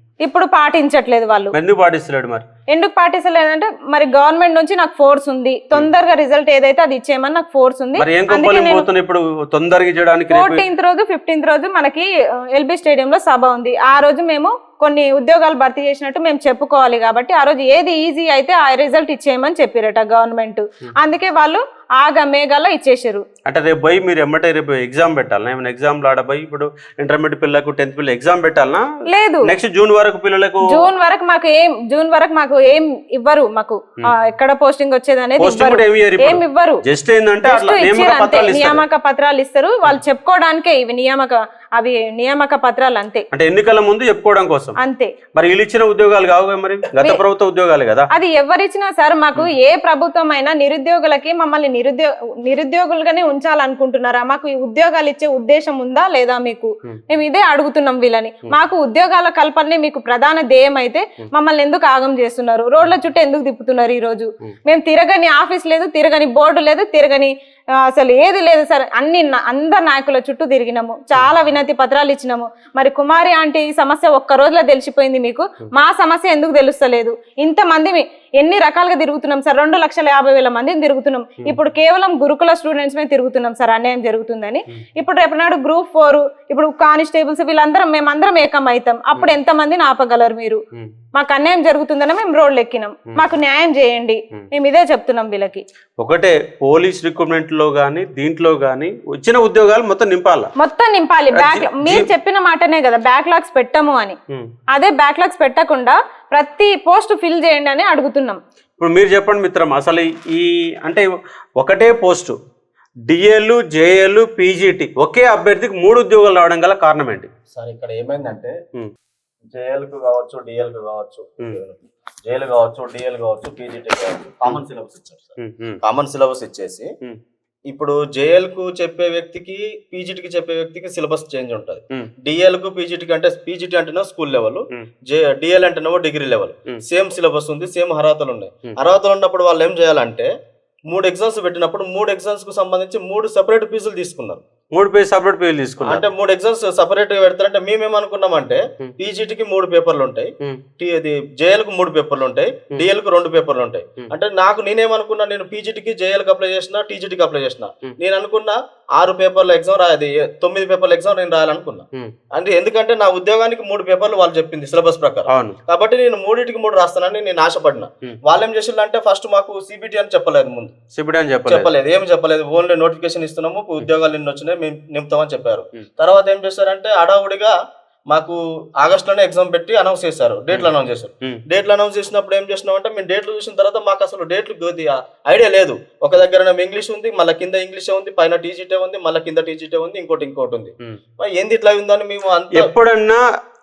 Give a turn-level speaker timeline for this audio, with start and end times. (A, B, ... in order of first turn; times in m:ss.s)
0:00.2-0:01.5 A
0:01.5-0:02.4 B
0:02.7-0:08.8 A
0:08.0-0:10.6 B
0:10.3-0:23.2 A
0:23.4-0:28.9 B
0:29.1-0:29.5 A
0:29.4-0:30.8 B
0:30.6-0:36.8 A
0:35.4-0:38.8 B
0:37.4-0:43.2 A
0:43.3-0:44.7 B
0:44.8-0:45.1 A
0:45.3-0:48.1 B
0:48.1-1:07.3 A
1:07.9-1:30.6 A
1:31.1-1:35.6 A
1:36.0-1:40.5 B
1:40.6-1:44.2 A
1:41.3-1:42.1 B
1:44.7-1:48.4 A
1:48.8-1:51.0 B
1:51.6-1:52.4 B
1:53.1-1:57.3 B
1:57.5-1:58.6 C
1:59.5-2:06.9 C
2:05.4-2:05.8 B
2:07.7-2:20.3 C
2:20.9-2:24.4 C
2:24.7-2:26.0 B
2:25.8-2:50.7 C
2:45.3-2:45.6 B
2:50.9-2:51.7 B
2:51.5-2:57.5 C
2:58.1-3:12.7 C
3:12.5-3:13.2 B